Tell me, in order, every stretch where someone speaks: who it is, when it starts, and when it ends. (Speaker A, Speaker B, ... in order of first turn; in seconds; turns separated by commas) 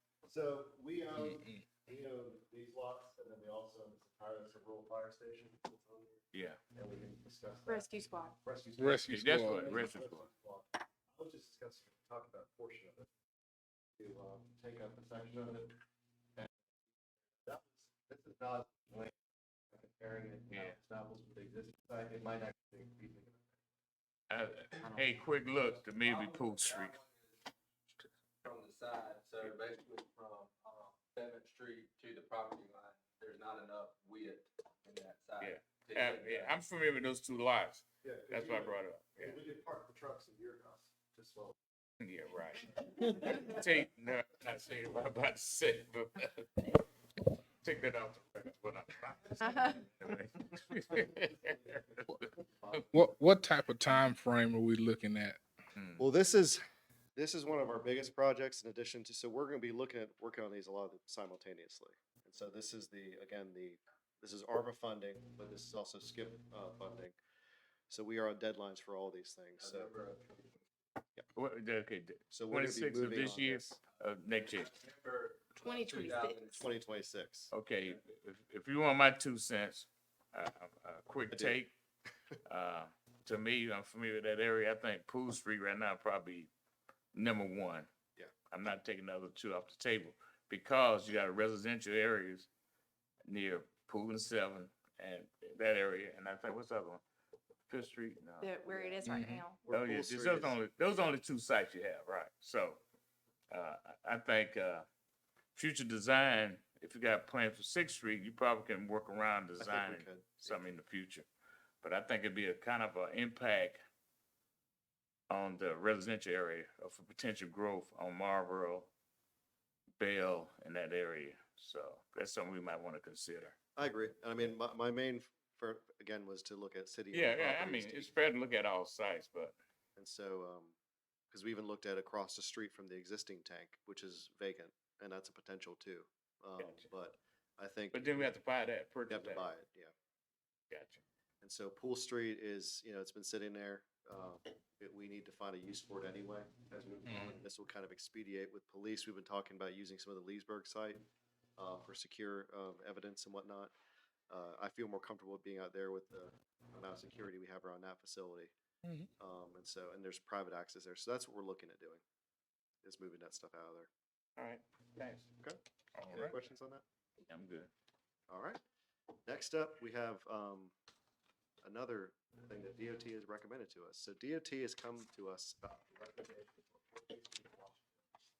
Speaker A: 0.2-13.1, Speaker B: 6.3-6.6, Speaker C: 7.7-8.4, Speaker D: 8.8-9.8, Speaker B: 9.1-10.2, Speaker A: 14.0-15.8, Speaker A: 17.4-19.1, Speaker A: 19.7-23.6, Speaker B: 20.5-20.7, Speaker B: 24.3-27.0, Speaker E: 25.9-27.4, Speaker E: 28.4-36.6, Speaker B: 35.4-39.4, Speaker A: 38.0-41.6, Speaker B: 42.0-46.7, Speaker B: 47.6-52.2, Speaker C: 49.5-49.7, Speaker A: 51.2-53.4, Speaker D: 52.9-55.4, Speaker A: 56.0-56.6, Speaker A: 57.1-67.2, Speaker A: 67.9-69.9, Speaker E: 69.6-70.6, Speaker B: 71.3-74.7, Speaker A: 72.3-73.8, Speaker E: 74.4-76.7, Speaker C: 75.6-76.8, Speaker A: 76.5-77.5, Speaker B: 77.5-81.7, Speaker A: 81.3-81.6, Speaker B: 82.5-86.5, Speaker B: 87.1-87.9, Speaker B: 88.5-92.5, Speaker B: 93.2-97.0, Speaker B: 97.7-98.5, Speaker C: 98.4-99.8, Speaker A: 98.7-99.1, Speaker D: 99.1-99.4, Speaker A: 99.7-100.6, Speaker B: 99.7-102.8, Speaker B: 103.5-104.8, Speaker B: 105.5-111.3, Speaker A: 109.6-110.6, Speaker B: 111.8-113.8, Speaker B: 115.3-118.9, Speaker B: 120.0-123.5, Speaker A: 123.8-128.1, Speaker B: 127.1-129.5, Speaker A: 130.0-130.8, Speaker A: 131.3-138.3, Speaker B: 136.6-136.9, Speaker B: 137.9-139.5, Speaker A: 139.1-139.9, Speaker B: 140.7-141.0, Speaker A: 141.4-151.0, Speaker A: 151.6-153.7, Speaker A: 154.3-158.5, Speaker A: 159.2-162.0, Speaker A: 162.8-163.9, Speaker B: 164.4-165.3, Speaker A: 165.4-166.8, Speaker D: 166.0-166.3, Speaker B: 167.3-167.7, Speaker A: 168.3-168.6, Speaker A: 169.2-170.7, Speaker A: 171.6-178.0